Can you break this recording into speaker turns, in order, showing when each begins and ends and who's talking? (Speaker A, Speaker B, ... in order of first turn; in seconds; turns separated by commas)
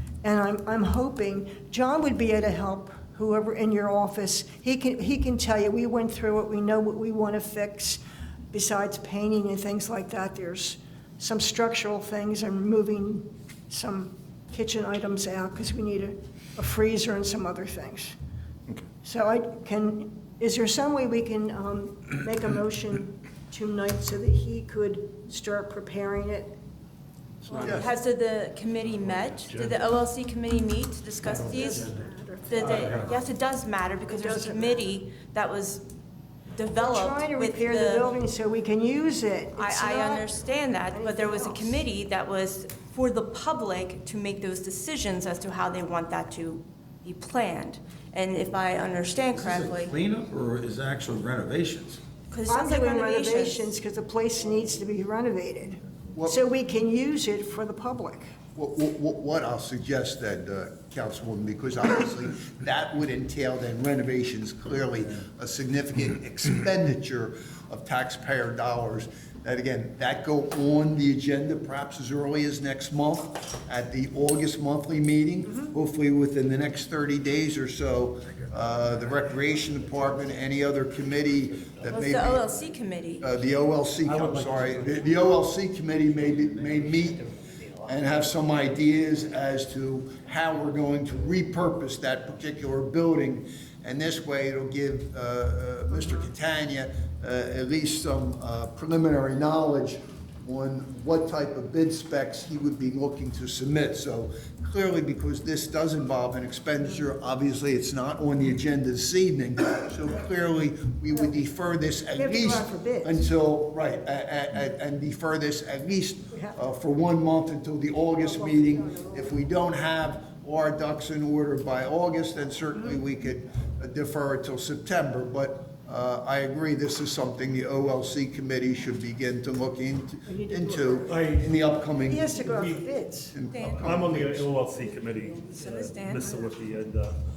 Speaker A: 0.2-8.0, Speaker A: 8.5-18.2, Speaker A: 19.0-26.6, Speaker B: 27.5-31.9, Speaker C: 27.6-27.9, Speaker A: 31.4-33.1, Speaker B: 32.5-35.9, Speaker D: 32.8-33.1, Speaker A: 34.1-34.9, Speaker B: 36.5-38.1, Speaker A: 36.8-40.3, Speaker B: 39.5-50.0, Speaker A: 40.9-41.8, Speaker E: 49.4-52.0, Speaker B: 52.3-53.7, Speaker A: 52.5-58.3, Speaker C: 58.6-82.4, Speaker B: 81.9-83.3, Speaker C: 83.2-87.2, Speaker D: 84.0-85.3, Speaker D: 86.3-87.8, Speaker C: 87.8-132.5, Speaker A: 112.2-113.2, Speaker A: 118.2-119.4, Speaker A: 130.3-131.2, Speaker D: 131.1-131.7, Speaker A: 132.1-133.3, Speaker D: 132.4-132.8, Speaker C: 133.3-134.5, Speaker B: 133.5-134.0, Speaker D: 133.7-137.2, Speaker B: 135.5-136.4